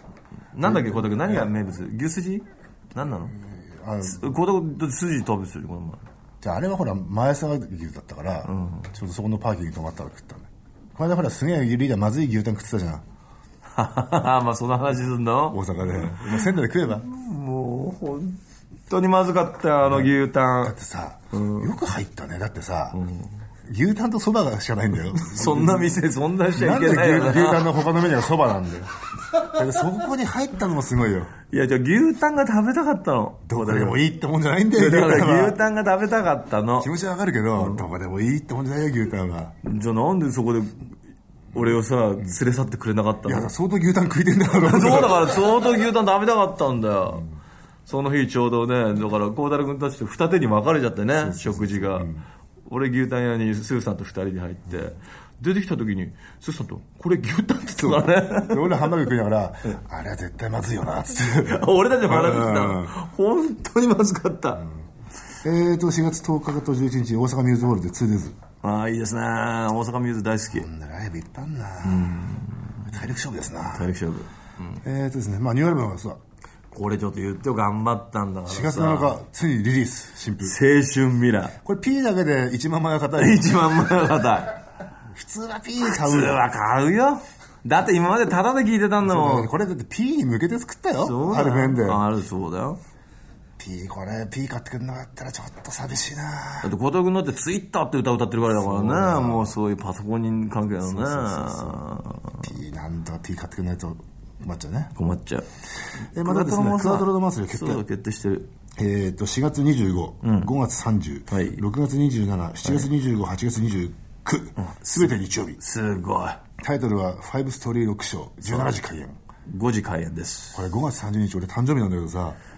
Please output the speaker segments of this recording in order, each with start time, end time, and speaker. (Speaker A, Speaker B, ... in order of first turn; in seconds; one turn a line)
Speaker A: 0.5-3.3
Speaker B: 0.6-1.5
Speaker B: 3.3-4.3
Speaker A: 4.0-6.0
Speaker B: 6.4-13.0
Speaker A: 8.4-8.9
Speaker A: 13.7-16.5
Speaker B: 15.5-17.1
Speaker A: 17.0-20.7
Speaker B: 19.8-23.0
Speaker A: 21.3-21.7
Speaker A: 22.9-23.3
Speaker B: 23.6-31.3
Speaker A: 25.1-27.7
Speaker A: 31.5-34.0
Speaker B: 33.5-35.6
Speaker A: 34.7-36.9
Speaker B: 36.8-39.5
Speaker A: 37.6-37.8
Speaker A: 39.6-40.9
Speaker A: 41.5-43.5
Speaker B: 43.2-45.4
Speaker A: 44.6-47.3
Speaker A: 47.9-52.1
Speaker B: 51.2-52.2
Speaker A: 52.7-58.9
Speaker B: 57.8-62.9
Speaker A: 61.4-64.7
Speaker B: 65.4-68.4
Speaker A: 68.6-70.7
Speaker B: 70.5-72.3
Speaker A: 71.8-72.9
Speaker B: 72.8-73.9
Speaker A: 73.7-74.8
Speaker B: 74.8-76.2
Speaker A: 76.7-79.2
Speaker B: 78.5-80.6
Speaker A: 80.4-81.6
Speaker B: 81.6-83.6
Speaker A: 83.2-84.6
Speaker B: 85.1-86.4
Speaker A: 85.8-89.5
Speaker B: 89.0-92.0
Speaker A: 91.0-92.8
Speaker B: 93.6-96.7
Speaker A: 96.6-102.5
Speaker B: 98.5-99.5
Speaker B: 100.8-101.8
Speaker B: 102.4-104.9
Speaker A: 105.0-105.5
Speaker B: 106.1-107.8
Speaker A: 106.1-108.5
Speaker B: 108.8-115.6
Speaker A: 110.2-110.5
Speaker A: 111.3-111.6
Speaker A: 114.6-116.4
Speaker B: 116.6-119.2
Speaker A: 118.4-118.7
Speaker A: 119.5-120.6
Speaker B: 120.5-122.4